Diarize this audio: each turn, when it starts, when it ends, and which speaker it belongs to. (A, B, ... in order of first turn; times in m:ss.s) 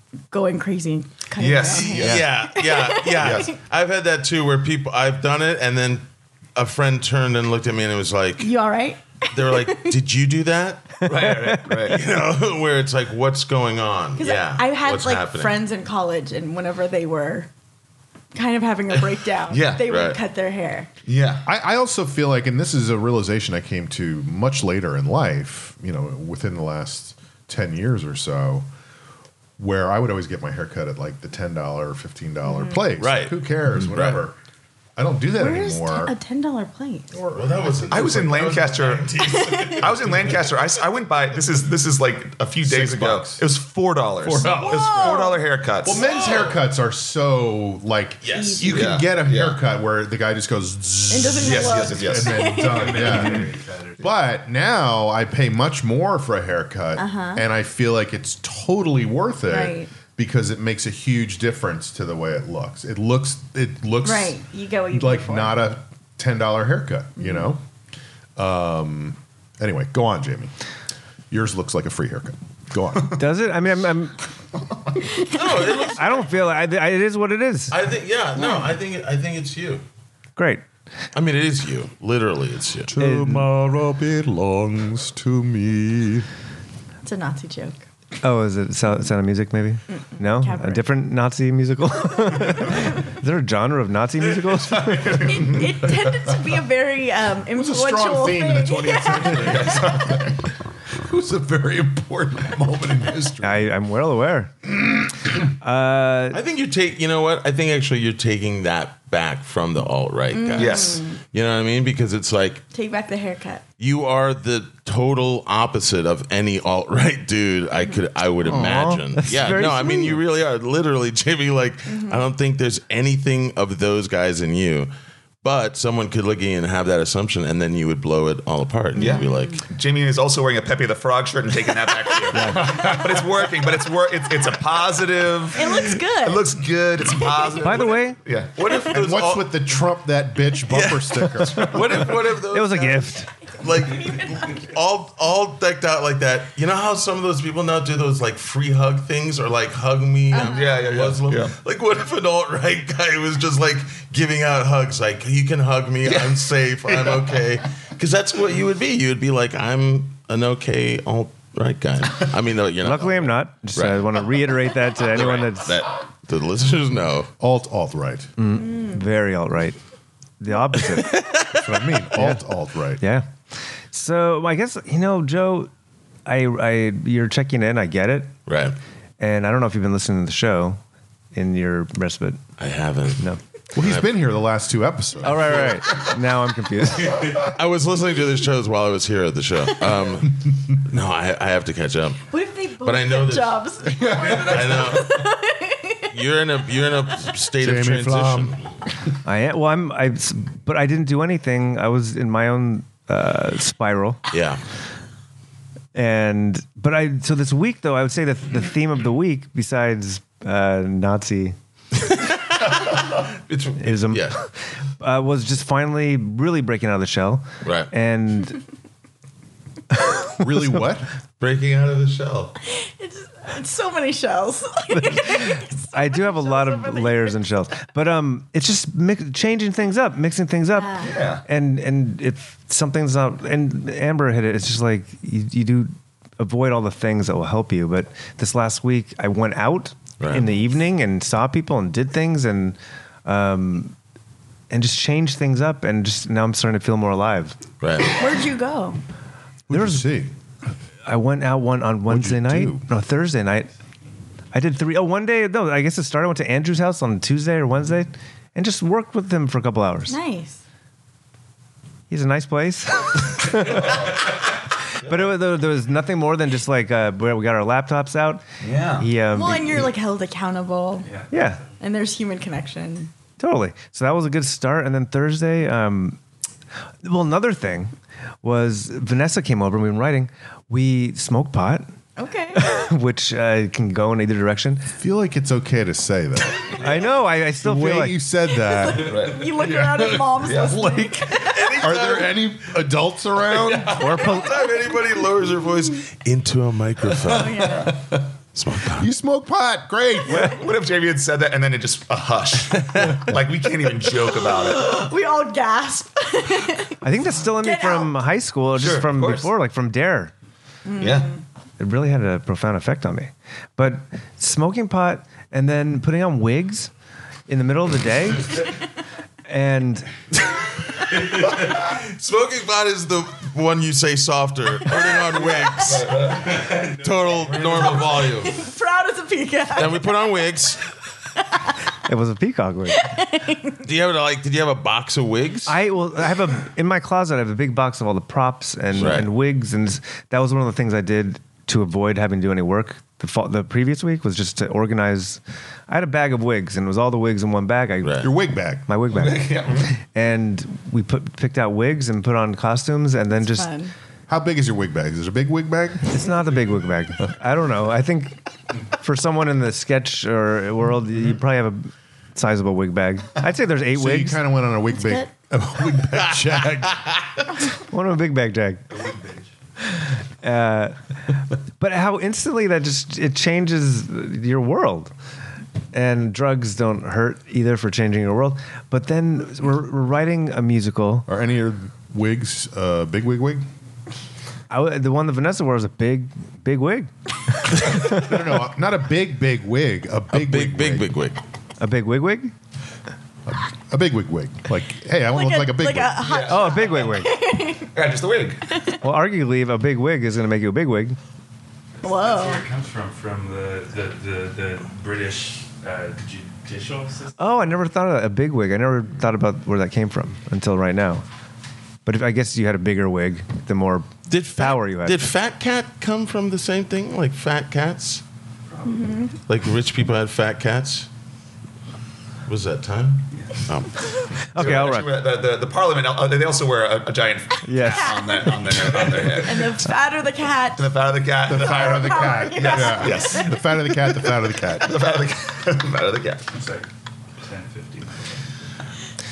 0:00.3-0:03.6 A
0:01.4-0:02.3 B
0:01.8-0:08.5 C
0:03.2-0:03.5 B
0:08.4-0:09.9 A
0:09.3-0:11.1 C
0:11.0-0:12.0 B
0:11.1-0:11.8 D
0:11.8-0:15.6 C
0:14.2-0:17.5 A
0:18.3-0:20.9 A
0:19.5-0:19.8 B
0:19.9-0:20.2 C
0:21.1-0:21.5 B
0:21.5-0:28.7 E
0:29.6-0:34.4 E
0:32.4-0:32.9 A
0:33.0-0:34.2 C
0:35.0-0:36.1 E
0:35.3-0:37.1 A
0:37.1-0:37.9 E
0:37.3-0:40.6 C
0:37.9-0:39.2 B
0:39.2-0:39.9 A
0:39.7-0:46.1 B
0:42.6-0:43.4 E
0:44.2-0:45.1 E
0:44.4-0:45.4 A
0:45.8-1:04.4 E
0:46.0-0:46.6 C
0:48.2-0:48.7 C
0:48.3-0:48.8 A
0:48.7-0:49.6 B
0:51.1-0:53.3 A
0:51.4-0:52.6 B
0:52.7-0:54.1 F
0:57.0-0:57.4 A
0:59.5-0:59.9 A
1:04.0-1:05.7 A
1:04.9-1:07.6 E
1:07.2-1:07.5 A
1:08.4-1:10.5 E
1:11.3-1:13.2 E
1:13.1-1:14.2 D
1:15.1-1:16.0 A
1:15.3-1:16.3 C
1:15.9-1:17.8 D
1:17.7-1:19.8 C
1:18.4-1:18.6 A
1:20.4-1:20.6 D
1:21.2-1:22.9 C
1:22.9-1:26.3 E
1:23.0-1:23.5 D
1:27.0-1:27.8 A
1:28.2-1:35.6 D
1:29.9-1:30.8 A
1:34.8-1:35.7 B
1:35.2-1:39.7 A
1:37.5-1:40.4 E
1:39.3-1:40.3 B
1:41.0-1:43.7 E
1:43.4-1:44.5 D
1:45.6-1:46.4 D
1:46.3-1:52.6 C
1:50.3-1:51.2 A
1:50.6-1:51.0 B
1:52.7-1:53.6 A
1:53.8-2:04.9 C
1:58.5-2:00.2 D
2:01.9-2:02.2 A
2:05.4-2:09.6 C
2:09.0-2:09.6 A
2:09.0-2:18.7 B
2:12.3-2:12.9 D
2:15.5-2:16.6 A
2:17.1-2:17.8 A
2:17.6-2:18.2 D
2:18.6-2:19.7 C
2:18.9-2:22.1 E
2:20.7-2:44.3 C
2:21.4-2:21.7 D
2:21.7-2:22.3 B
2:22.3-2:23.3 D
2:23.8-2:24.6 A
2:30.3-2:30.8 A
2:30.4-2:31.5 B
2:36.0-2:37.4 B
2:42.8-2:45.8 D
2:45.1-2:47.3 C
2:47.4-2:48.3 E
2:48.4-2:49.8 D
2:48.5-2:49.0 A
2:50.4-2:51.2 D
2:51.0-2:51.6 C
2:51.5-2:53.0 E
2:52.2-2:52.4 D
2:53.0-2:55.7 D
2:56.3-2:58.3 D
2:58.5-2:58.8 C
2:59.2-3:00.8 D
3:01.3-3:02.4 D
3:02.6-3:03.2 C
3:03.8-3:05.6 E
3:03.8-3:04.2 C
3:05.2-3:06.1 C
3:05.2-3:07.5 D
3:07.1-3:12.2 C
3:12.3-3:16.2 A
3:12.8-3:13.6 C
3:14.0-3:14.6 E
3:14.2-3:15.2 C
3:16.1-3:18.6 C
3:17.6-3:18.6 E
3:19.2-3:24.2 D
3:24.3-3:24.6 C
3:25.9-3:31.6 D
3:33.5-3:34.4 C
3:33.8-3:38.6 D
3:37.6-3:37.9 C
3:39.9-3:40.8 D
3:40.4-3:41.1 E
3:41.4-3:42.6 C
3:42.7-3:47.4 A
3:44.9-4:04.0 D
3:50.8-3:51.1 A
3:51.0-3:51.4 B
4:00.2-4:00.5 C
4:04.7-4:07.6 D
4:07.8-4:08.2 C
4:08.2-4:09.0 A
4:09.7-4:10.3 E
4:09.7-4:10.1 D
4:11.0-4:13.7 D
4:12.1-4:12.8 E
4:14.5-4:20.2 D
4:20.1-4:20.6 A
4:22.1-4:24.2 D
4:23.8-4:24.1 B
4:25.0-4:28.4 D
4:28.6-4:29.1 B
4:29.0-4:29.9 D
4:29.3-4:31.1 A
4:31.0-4:31.7 F
4:31.3-4:31.6 D
4:31.8-4:33.1 A
4:33.4-4:36.2 D
4:37.0-4:41.8 D
4:42.2-4:42.9 A
4:42.6-4:44.9 D
4:45.0-4:46.8 E
4:46.8-4:48.2 D
4:47.6-4:51.2 E
4:48.6-4:51.9 A
4:49.0-4:49.5 B
4:50.4-4:50.9 B
4:51.4-4:52.4 C
4:51.8-4:54.1 E
4:53.6-4:57.9 C
4:53.9-4:54.6 D
4:57.3-4:58.0 A
4:58.6-4:59.1 C
4:58.9-5:00.6 E
5:00.2-5:05.0 B
5:04.4-5:08.2 A
5:07.0-5:10.3 D
5:08.8-5:09.5 B
5:10.8-5:11.4 A
5:11.0-5:11.3 B
5:11.8-5:16.9 D
5:17.5-5:18.8 D
5:19.5-5:20.1 D
5:21.0-5:28.6 C
5:25.8-5:26.9 B
5:27.0-5:27.4 F
5:27.5-5:28.2 B
5:27.9-5:30.1 A
5:29.8-5:30.8 C
5:32.1-5:33.2 D
5:32.9-5:33.8 A
5:33.8-5:35.8 C
5:35.7-5:48.3 D
5:39.0-5:39.3 C
5:48.0-5:48.3 C
5:48.2-5:48.9 E
5:48.9-5:53.7 D
5:49.1-5:49.9 B
5:53.4-5:53.9 A
5:54.3-5:56.2 E
5:56.1-5:58.4 D
5:58.9-6:04.4 D
6:03.9-6:07.0 E
6:04.9-6:05.3 A
6:07.8-6:08.9 D
6:09.9-6:15.1 D
6:15.9-6:21.3 D
6:21.3-6:23.7 E
6:24.7-6:28.4 D
6:28.0-6:31.2 E
6:30.3-6:31.4 C
6:31.8-6:32.5 D
6:33.5-6:36.3 E
6:35.3-6:37.9 A
6:36.2-6:37.1 B
6:36.5-6:37.3 D
6:37.9-6:38.7 B
6:38.7-6:39.0 A
6:39.0-6:41.2 D
6:42.0-6:47.4 F
6:42.0-6:42.6 A
6:47.4-6:51.2 D
6:52.0-6:55.2 D
6:54.3-6:58.2 C
6:58.8-6:59.4 A
6:59.5-7:01.1 C
7:02.5-7:04.1 C
7:03.4-7:03.6 F
7:04.5-7:05.1 D
7:04.6-7:09.8 B
7:07.6-7:08.3 D
7:07.8-7:10.9 A
7:10.8-7:13.6 B
7:11.5-7:15.0 E
7:11.5-7:13.5 A
7:14.7-7:16.4 B
7:16.5-7:18.5 F